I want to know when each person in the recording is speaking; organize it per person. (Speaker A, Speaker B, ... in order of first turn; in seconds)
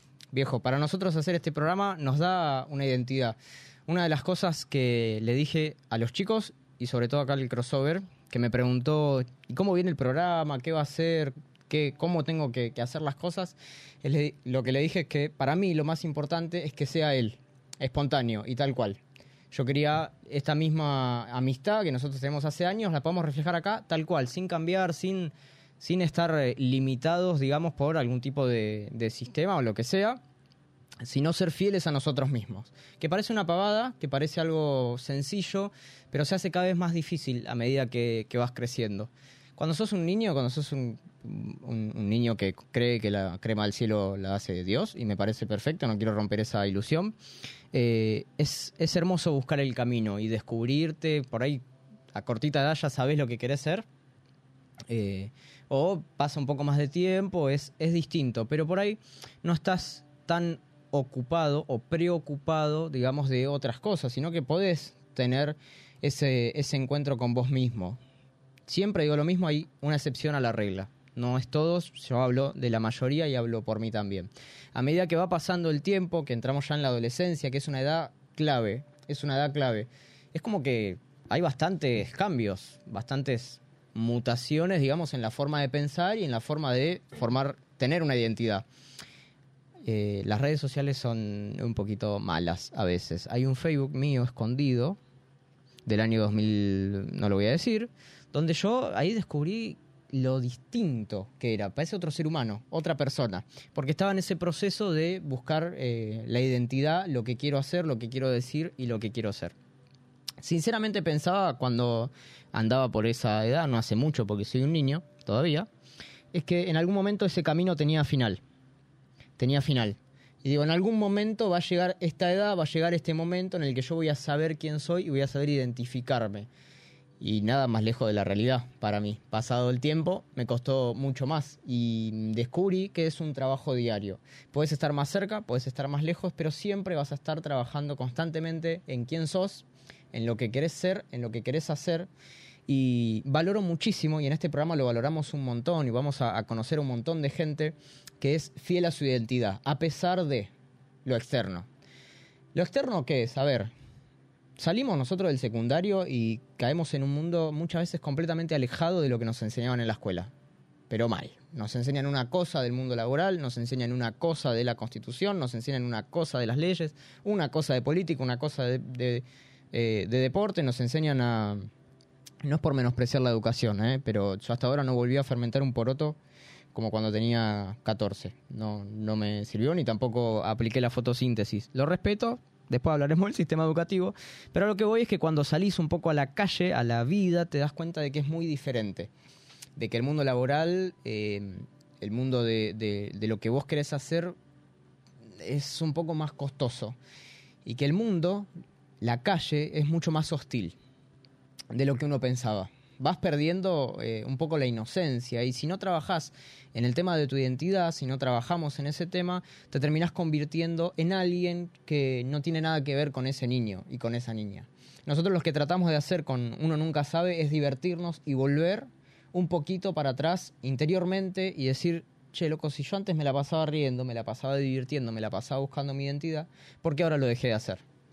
Speaker A: 0.3-19.0, 19.5-30.2, 31.0-47.1, 47.7-53.9, 54.9-68.0, 68.7-88.6, 89.8-95.0, 95.8-109.5, 110.4-115.7, 116.3-118.4, 119.4-126.5, 127.2-142.1, 142.7-150.5, 151.0-151.7, 152.5-153.7, 154.6-160.3, 160.9-171.7, 172.4-176.2, 176.7-189.1, 189.8-194.3, 195.4-197.0, 197.6-198.5, 199.0-200.8, 201.7-227.8